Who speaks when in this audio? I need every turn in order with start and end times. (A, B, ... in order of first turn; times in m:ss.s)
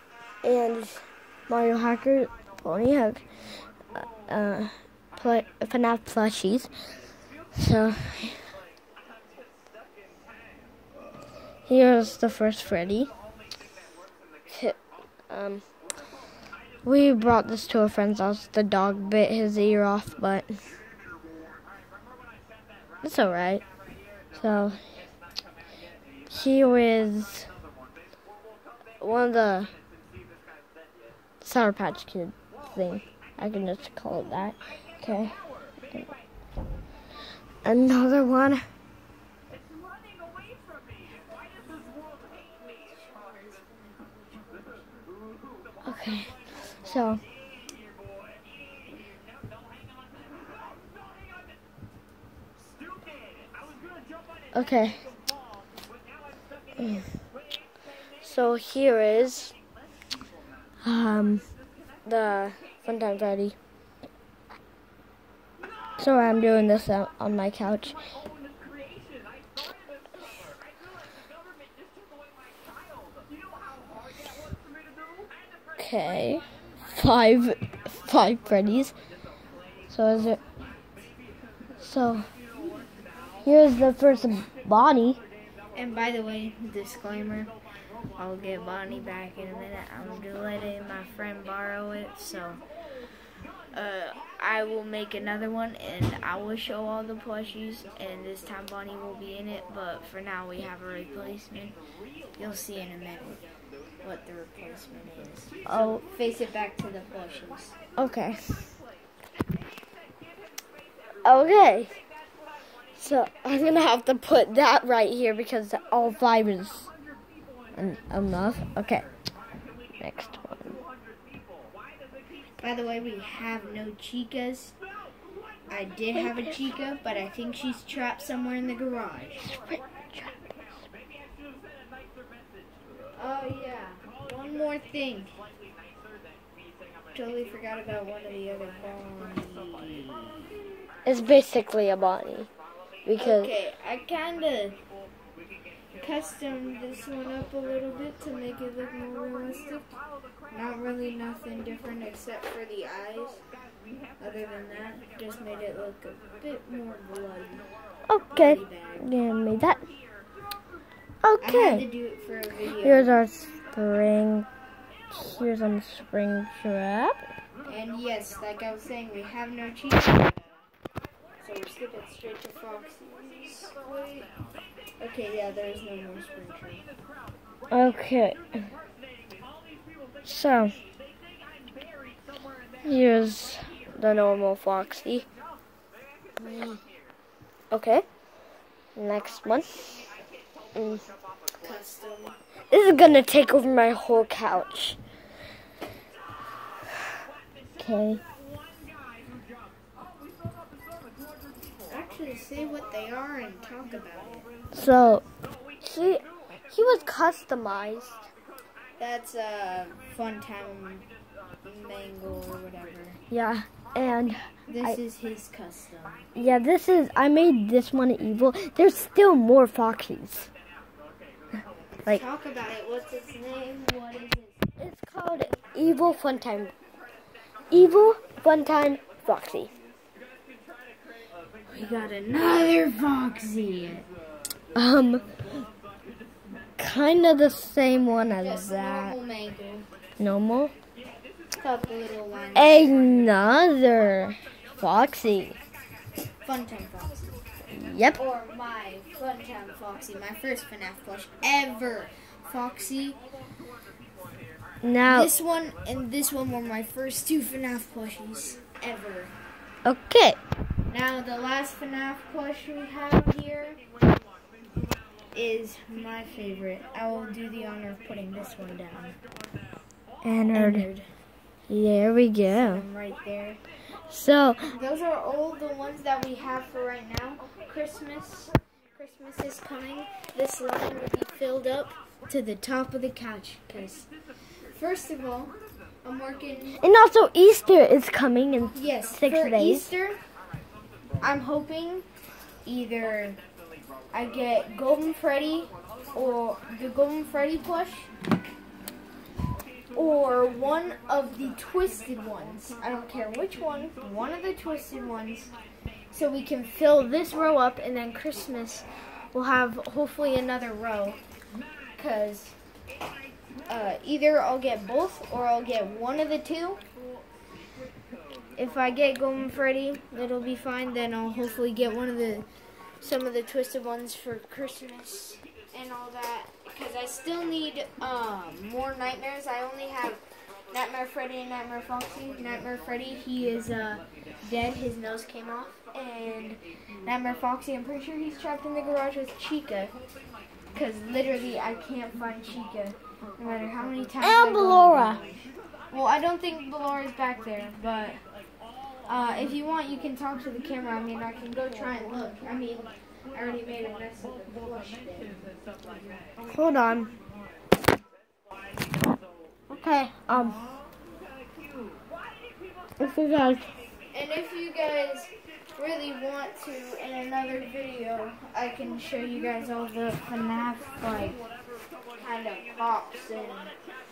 0:00.4-0:03.2 A
0:03.9-0:06.7 A
0:07.6-0:08.4 A
0:11.7-0:13.1 A
0:14.5-0:14.8 A
0:15.3-0:15.6 A
0:16.8-0:20.5 A
0:23.0-0:23.6 A
0:24.3-0:24.8 A
0:26.3-0:27.5 A
0:29.0-0:29.7 A
0:31.4-0:35.3 A
0:37.6-0:38.6 A
0:42.4-0:44.9 B
0:45.8-0:47.2 A
0:54.5-0:55.0 A
0:56.8-0:57.1 A
0:58.2-0:59.5 A
1:00.8-1:01.4 A
1:02.0-1:03.6 A
1:06.0-1:08.0 A
1:15.8-1:18.9 A
1:19.9-1:20.4 A
1:21.8-1:22.3 A
1:23.4-1:25.2 A
1:25.7-1:27.5 B
1:28.2-1:32.6 B
1:33.7-1:41.8 B
1:42.4-1:43.4 B
1:44.0-1:47.7 B
1:45.6-1:46.0 A
1:48.0-1:48.7 A
1:51.2-1:51.9 A
1:53.0-1:56.9 A
1:57.7-1:59.0 A
2:00.0-2:00.8 A
2:02.6-2:04.7 B
2:05.7-2:09.5 B
2:09.5-2:10.7 A
2:13.2-2:15.4 B
2:17.1-2:20.4 B
2:21.0-2:22.5 A
2:23.0-2:23.5 A
2:23.2-2:24.8 B
2:26.0-2:30.0 B
2:30.5-2:33.4 B
2:34.2-2:37.6 B
2:38.1-2:39.8 A
2:38.3-2:39.1 B
2:41.2-2:41.8 A
2:41.4-2:43.1 B
2:42.8-2:44.5 A
2:45.1-2:47.2 A
2:47.6-2:50.6 B
2:51.4-2:54.3 B
2:55.0-2:56.8 B
2:57.7-2:58.4 A
3:00.2-3:00.7 A
3:02.8-3:05.3 A
3:07.7-3:08.0 A
3:09.0-3:10.0 A
3:10.7-3:11.0 A
3:11.6-3:12.4 B
3:12.7-3:15.0 A
3:17.8-3:18.2 A
3:21.9-3:24.5 B
3:24.7-3:25.2 A
3:25.8-3:28.2 A
3:29.0-3:31.1 B
3:31.6-3:33.2 B
3:33.3-3:35.0 A
3:34.7-3:36.3 B
3:36.3-3:40.5 A
3:42.0-3:44.8 B
3:44.8-3:46.7 A
3:47.7-3:49.7 A
3:51.7-3:54.1 B
3:54.7-3:55.3 A
3:56.8-3:59.2 A
3:58.3-3:59.8 B
4:00.2-4:00.7 A
4:01.6-4:03.2 B
4:02.5-4:05.6 A
4:06.4-4:07.4 B
4:07.7-4:08.2 A
4:08.1-4:13.2 B
4:14.8-4:15.3 A
4:15.0-4:19.3 B
4:19.8-4:20.4 A
4:20.9-4:23.8 B
4:25.3-4:29.1 B
4:30.2-4:30.9 A
4:30.5-4:31.1 B
4:31.7-4:32.8 A
4:32.5-4:33.6 B
4:34.1-4:34.7 A
4:34.7-4:44.1 B
4:44.6-4:46.8 B
4:46.8-4:49.9 A
4:48.7-4:50.2 B
4:51.2-4:52.0 B
4:52.6-4:53.4 B
4:54.1-4:58.1 B
4:59.9-5:05.5 B
5:06.1-5:11.2 B
5:12.0-5:12.6 B
5:13.7-5:16.8 B
5:18.6-5:22.5 B
5:23.0-5:39.9 B
5:40.7-5:48.2 B
5:44.2-5:45.2 A
5:49.0-5:55.4 B
5:56.5-5:57.1 A
5:59.7-6:00.6 A
6:03.0-6:03.7 A
6:04.1-6:11.4 B
6:12.2-6:13.7 B